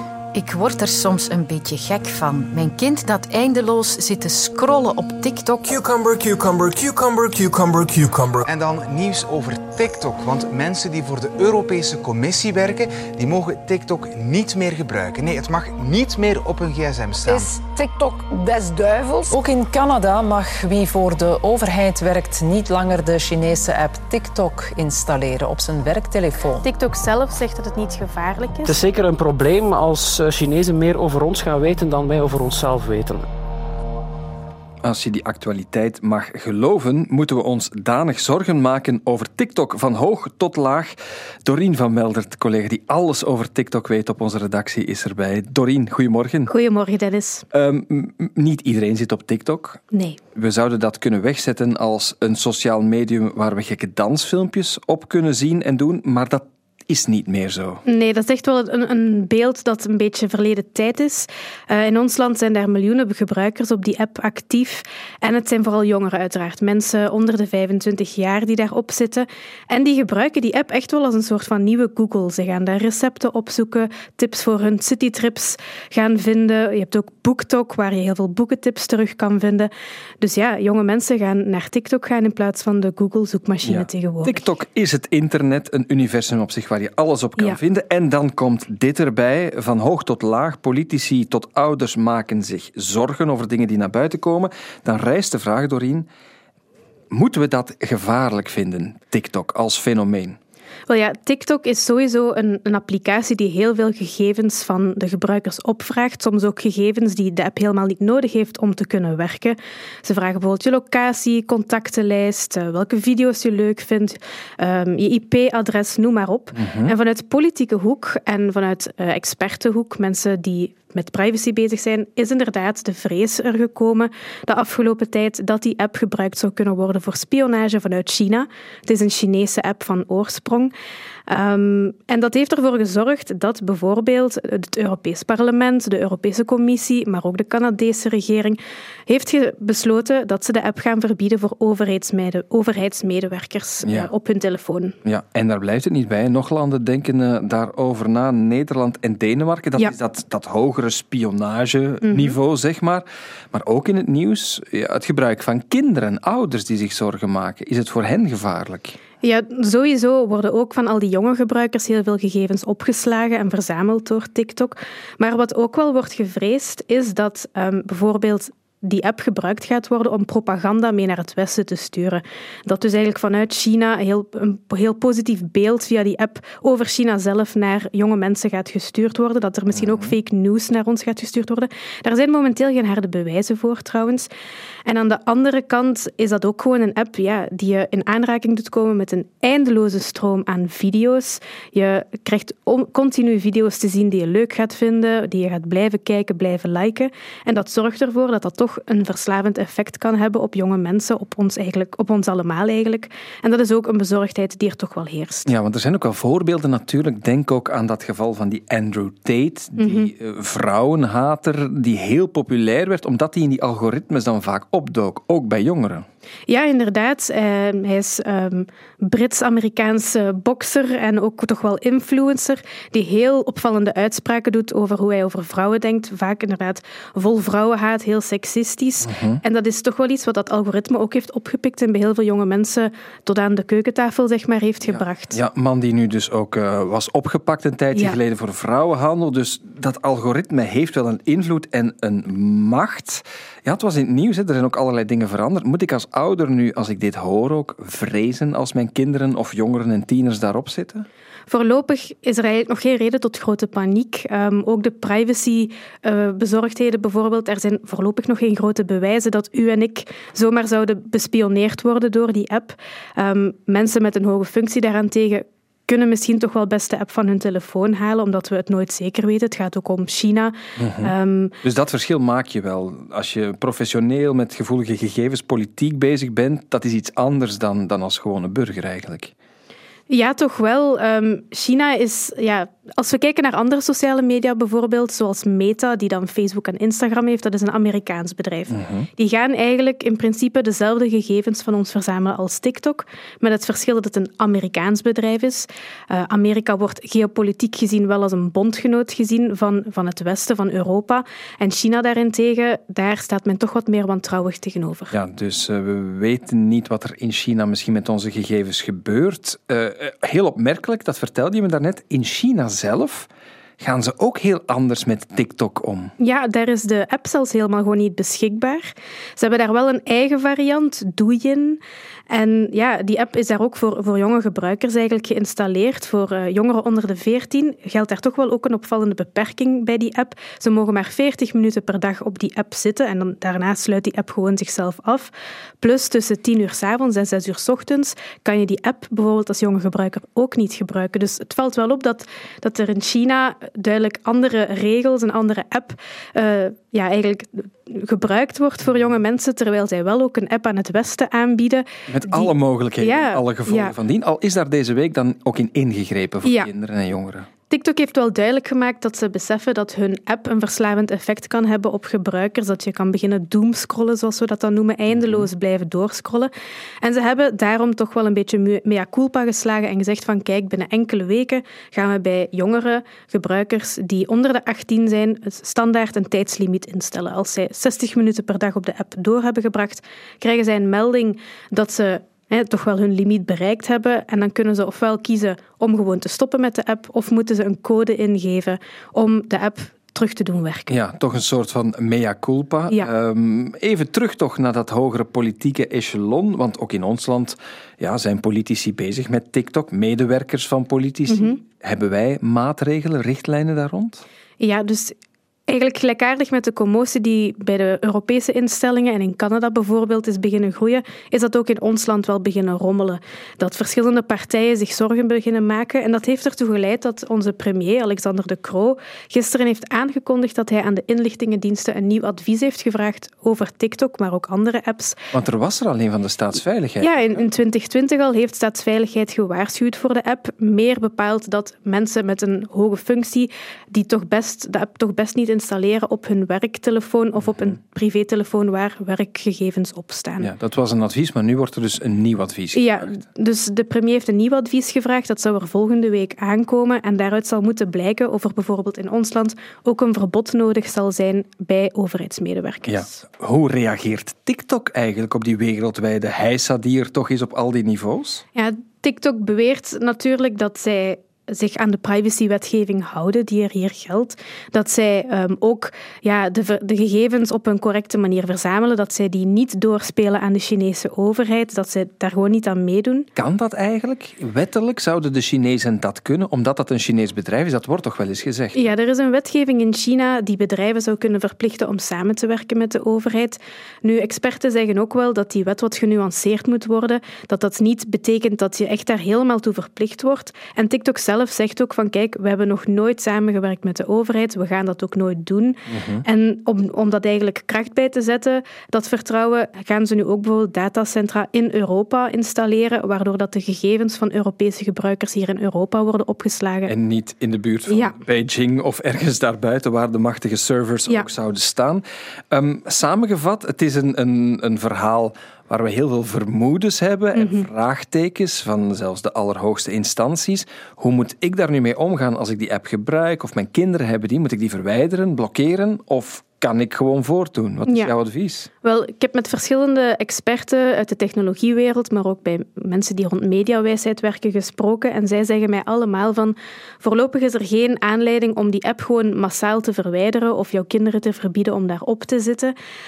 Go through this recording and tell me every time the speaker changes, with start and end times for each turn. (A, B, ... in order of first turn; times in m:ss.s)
0:00.3-0:05.6 A
0:05.6-0:17.5 B
0:17.3-0:26.6 C
0:26.6-0:28.7 D
0:28.6-0:33.3 E
0:34.8-0:46.5 F
0:46.5-0:47.4 D
0:47.5-0:49.8 F
0:49.9-0:50.2 D
0:50.4-0:57.8 F
0:57.9-1:19.7 D
1:20.2-1:24.4 D
1:23.6-1:36.1 F
1:37.1-1:40.4 F
1:40.9-2:10.7 D
1:56.6-1:57.0 F
2:11.3-2:18.6 D
2:19.1-2:25.0 D
2:23.8-2:24.1 F
2:25.0-2:39.0 F
2:32.0-2:32.4 D
2:39.2-3:04.3 D
2:59.7-3:00.2 F
3:04.9-3:25.5 D
3:25.5-3:36.1 F
3:29.8-3:30.1 D
3:36.5-3:55.4 D
3:49.0-3:49.4 F
3:54.8-4:11.1 F
4:11.5-4:31.6 D
4:30.8-4:39.3 F
4:40.1-5:05.1 D
4:48.7-4:49.1 F
5:05.1-5:13.3 F
5:13.8-5:16.1 F
5:16.2-5:21.8 D
5:22.3-5:35.3 D
5:35.8-5:53.9 D
5:52.1-5:57.5 F
5:56.4-5:56.7 D
5:57.7-6:06.5 D
6:05.1-6:05.5 F
6:07.0-6:30.9 D
6:30.9-6:44.2 F
6:41.3-6:41.6 D
6:44.6-6:45.1 D
6:45.7-7:05.2 D
7:05.3-7:07.1 F
7:07.0-7:20.5 D
7:17.4-7:17.8 F
7:20.4-7:23.2 F
7:22.8-7:33.0 D
7:32.9-7:38.4 F
7:38.6-7:53.3 D
7:53.4-7:58.8 F
7:58.8-8:26.9 D
8:15.9-8:16.2 F
8:26.9-8:48.7 F
8:27.9-8:28.1 D
8:37.4-8:37.7 D
8:48.8-9:02.7 D